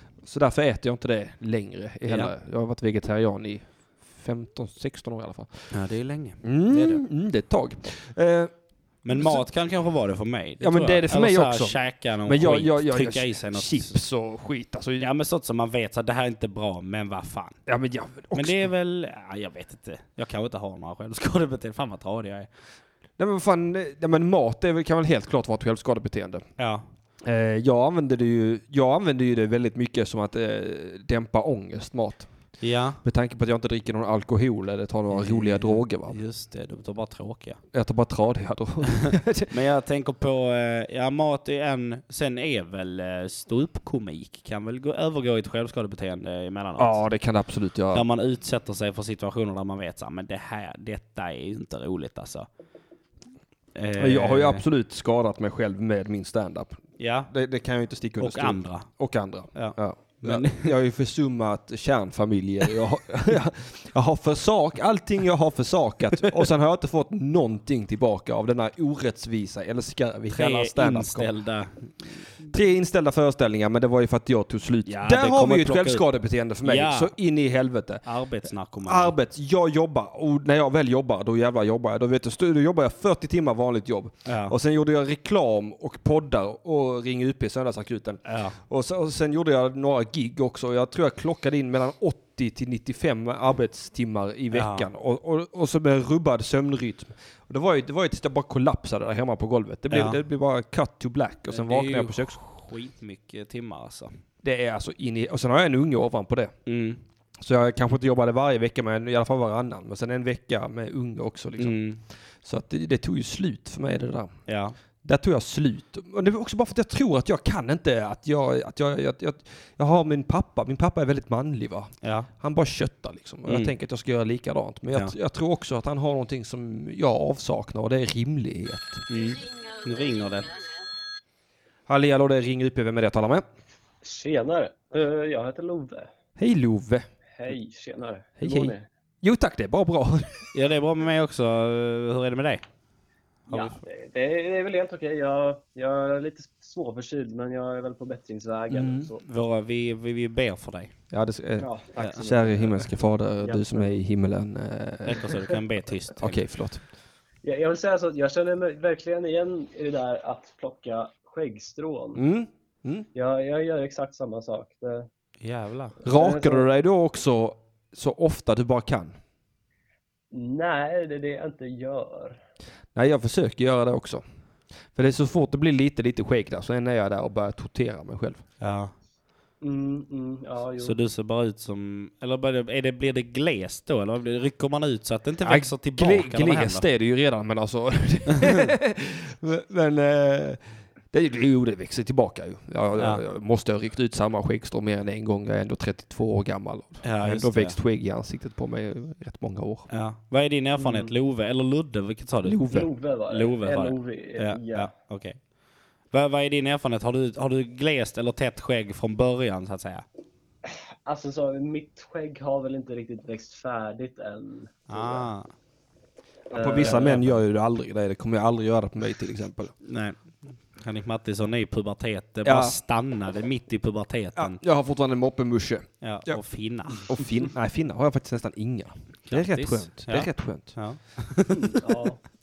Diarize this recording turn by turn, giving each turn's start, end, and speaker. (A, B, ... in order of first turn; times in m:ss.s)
0:00.2-0:05.7 A
0:02.1-0:02.3 B
0:05.7-0:07.0 B
0:06.4-0:08.5 A
0:09.0-0:14.0 B
0:09.1-0:09.4 A
0:10.6-0:15.1 A
0:15.0-0:17.6 B
0:17.7-0:18.7 A
0:18.3-0:22.5 B
0:23.2-0:26.4 A
0:26.6-0:26.8 B
0:27.2-0:32.3 A
0:32.6-0:33.0 B
0:33.0-0:36.2 A
0:35.1-0:37.6 B
0:37.7-0:39.5 A
0:39.5-0:47.0 B
0:46.8-0:48.0 A
0:47.9-0:52.5 B
0:53.8-0:54.6 B
0:54.0-1:11.3 A
0:57.0-0:57.3 B
0:58.2-1:00.7 B
1:10.3-1:12.5 B
1:12.5-1:18.0 A
1:14.9-1:16.1 B
1:16.6-1:17.1 B
1:18.0-1:19.1 B
1:18.8-1:42.4 A
1:24.3-1:24.6 B
1:28.2-1:28.6 B
1:34.5-1:34.9 B
1:39.9-1:40.2 B
1:41.5-1:44.1 B
1:44.4-1:46.5 A
1:46.7-1:47.0 B
1:47.4-1:51.8 A
1:51.6-1:52.0 B
1:52.4-1:54.3 A
1:54.5-1:54.8 B
1:55.0-2:09.0 A
2:02.0-2:02.3 B
2:03.5-2:03.7 B
2:09.1-2:10.6 B
2:11.9-2:13.4 A
2:14.0-2:16.1 C
2:16.4-2:17.1 A
2:17.4-2:18.9 C
2:18.4-2:20.5 A
2:20.5-2:22.6 B
2:23.5-2:23.8 B
2:23.5-2:29.2 C
2:28.7-2:29.1 A
2:29.2-2:30.9 B
2:31.1-2:35.3 A
2:31.6-2:32.8 C
2:33.4-2:34.0 C
2:35.1-2:36.4 B
2:36.2-2:36.8 A
2:37.4-2:42.2 C
2:42.2-2:43.1 A
2:43.1-2:45.1 C
2:45.4-2:46.0 B
2:46.0-2:46.7 C
2:46.0-2:49.2 A
2:50.3-2:52.4 C
2:53.0-2:54.2 A
2:54.9-2:58.4 A
2:58.6-2:58.9 B
2:59.6-3:01.0 C
3:00.8-3:06.9 B
3:05.4-3:19.9 A
3:08.4-3:08.7 B
3:13.0-3:13.2 B
3:17.0-3:17.8 B
3:19.9-3:25.4 B
3:20.8-3:21.1 C
3:22.4-3:22.9 A
3:22.7-3:24.9 C
3:26.1-3:30.0 B
3:31.0-3:35.3 C
3:34.9-3:35.5 B
3:36.5-3:37.2 C
3:36.6-3:39.7 A
3:36.8-3:37.4 B
3:39.8-3:44.6 B
3:42.4-3:42.8 A
3:44.4-3:46.4 A
3:46.0-3:47.1 B
3:47.0-3:50.8 A
3:49.3-3:51.7 B
3:51.5-3:52.2 C